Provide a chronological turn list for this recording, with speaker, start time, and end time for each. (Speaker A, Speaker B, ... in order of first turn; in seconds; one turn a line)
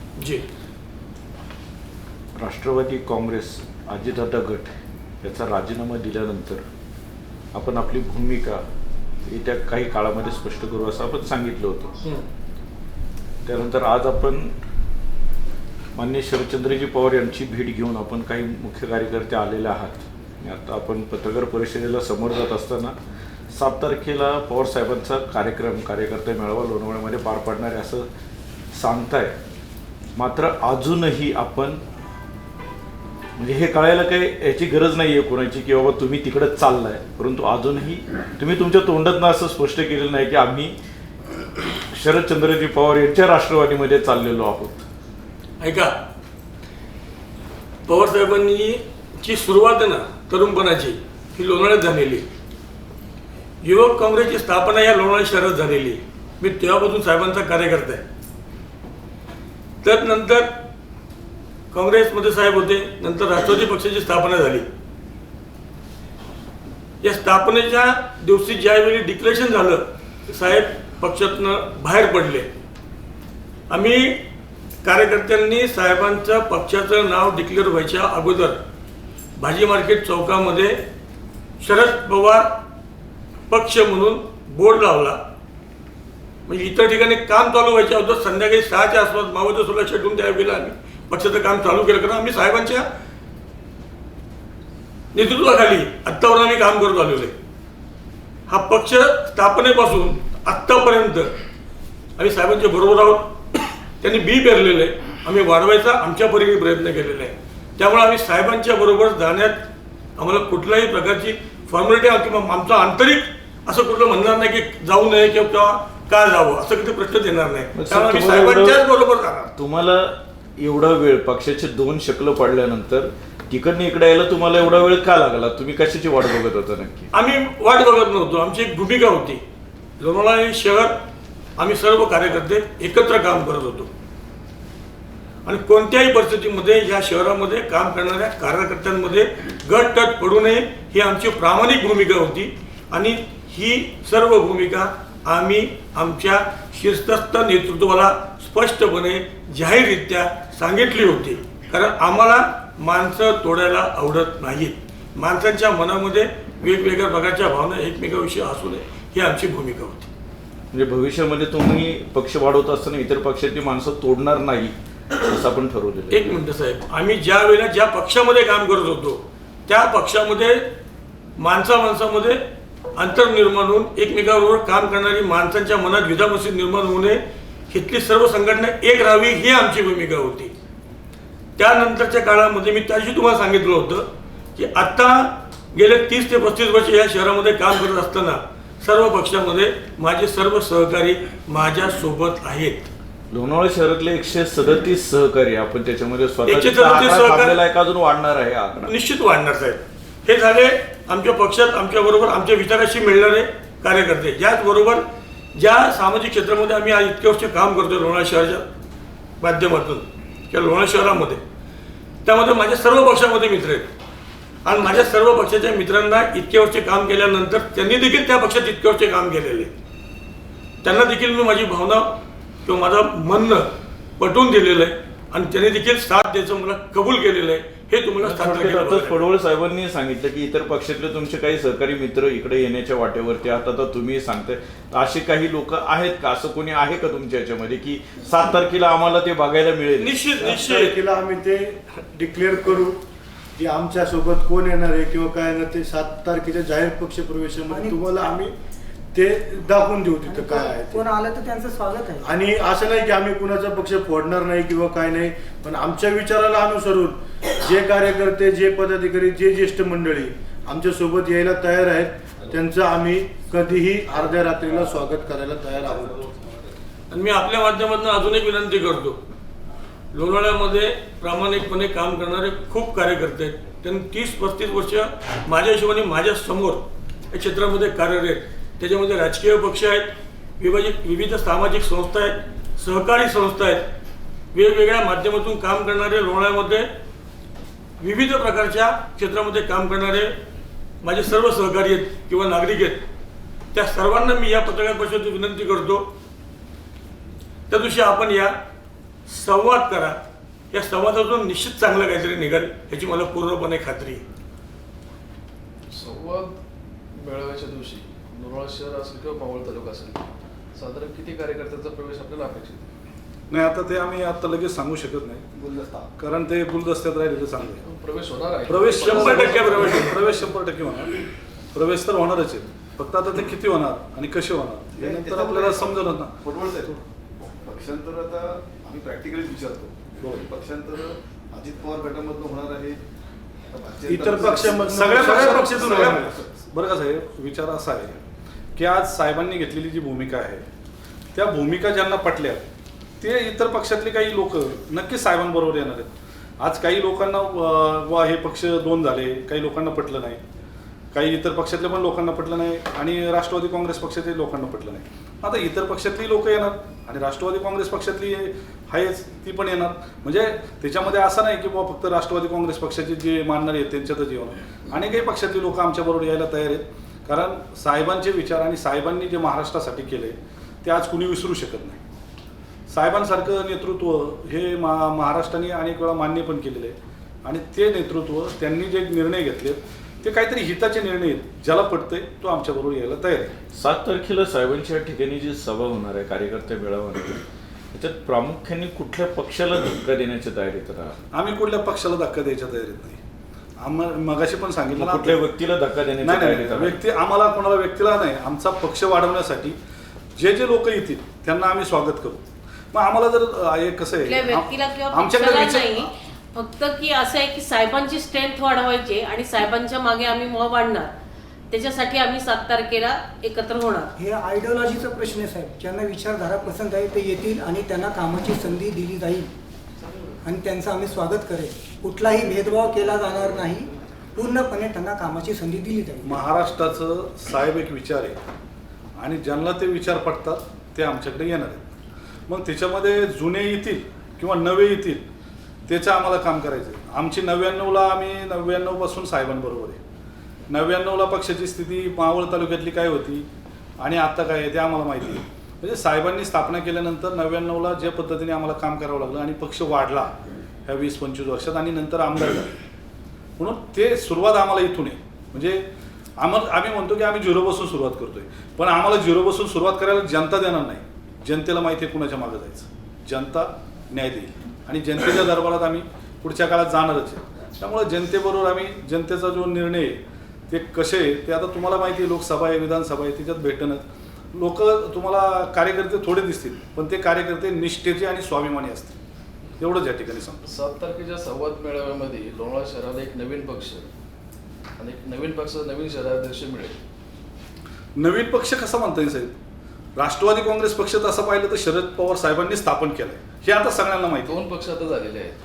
Speaker A: 0.2-0.4
Speaker B: 2.4-6.6
Speaker B: 7.5-8.6
Speaker B: 9.2-11.9
Speaker B: 13.4-14.5
Speaker B: 15.9-22.9
Speaker B: 23.5-28.1
Speaker B: 28.7-29.4
Speaker B: 30.2-31.8
Speaker B: 33.4-40.8
Speaker B: 41.9-44.9
Speaker A: 45.6-46.0
Speaker A: 47.9-52.3
Speaker A: 53.6-58.0
Speaker A: 59.8-60.6
Speaker A: 61.7-64.7
Speaker A: 67.0-72.5
Speaker A: 73.7-74.2
Speaker A: 74.8-78.6
Speaker A: 79.4-80.8
Speaker A: 81.6-82.6
Speaker A: 83.5-85.2
Speaker A: 86.5-92.9
Speaker A: 95.1-97.3
Speaker A: 98.5-101.3
Speaker A: 102.2-103.4
Speaker A: 104.0-109.6
Speaker A: 110.2-119.5
Speaker B: 117.8-118.8
Speaker B: 119.6-127.1
Speaker A: 127.1-129.4
Speaker A: 130.0-131.0
Speaker A: 131.6-133.9
Speaker A: 135.4-160.1
Speaker B: 160.7-166.3
Speaker A: 166.1-170.7
Speaker A: 171.4-172.4
Speaker A: 173.0-180.5
Speaker A: 181.6-192.9
Speaker B: 193.3-198.9
Speaker A: 196.5-197.6
Speaker A: 198.9-208.7
Speaker A: 209.4-211.4
Speaker A: 212.2-213.9
Speaker A: 214.7-219.7
Speaker A: 220.8-229.2
Speaker B: 228.2-240.2
Speaker A: 240.0-241.0
Speaker C: 240.4-243.0
Speaker C: 243.6-248.5
Speaker D: 247.7-248.0
Speaker C: 249.1-251.1
Speaker D: 250.3-252.3
Speaker C: 252.2-266.4
Speaker A: 267.1-269.2
Speaker A: 270.1-283.9
Speaker A: 284.5-286.9
Speaker A: 288.0-290.4
Speaker A: 291.0-293.0
Speaker A: 293.7-296.1
Speaker A: 297.7-298.5
Speaker A: 299.3-300.2
Speaker A: 300.7-304.2
Speaker E: 305.9-306.6
Speaker E: 307.1-312.9
Speaker F: 313.5-315.4
Speaker G: 315.5-316.1
Speaker F: 316.2-317.9
Speaker E: 317.7-320.4
Speaker F: 318.7-321.2
Speaker A: 319.0-320.3
Speaker F: 321.8-327.0
Speaker G: 325.0-326.9
Speaker G: 327.6-333.0
Speaker F: 330.2-330.5
Speaker G: 333.7-336.5
Speaker C: 334.1-336.4
Speaker F: 334.4-338.2
Speaker F: 338.8-340.7
Speaker F: 341.3-342.6
Speaker F: 343.2-350.4
Speaker F: 351.1-372.0
Speaker F: 372.9-383.5
Speaker B: 383.7-391.2
Speaker F: 391.3-393.2
Speaker F: 393.8-395.4
Speaker B: 394.9-397.0
Speaker F: 396.2-399.8
Speaker F: 400.4-406.1
Speaker H: 404.2-411.1
Speaker H: 411.7-414.1
Speaker D: 414.2-419.5
Speaker D: 420.4-426.4
Speaker F: 426.2-428.4
Speaker F: 429.2-431.9
Speaker F: 432.5-435.2
Speaker F: 435.9-440.0
Speaker F: 440.7-443.5
Speaker F: 444.0-450.4
Speaker F: 450.9-452.7
Speaker F: 453.6-455.9
Speaker F: 456.4-479.2
Speaker F: 479.8-480.6
Speaker E: 480.7-484.1
Speaker E: 485.0-487.0
Speaker F: 488.2-489.6
Speaker F: 490.2-494.6
Speaker E: 494.5-495.6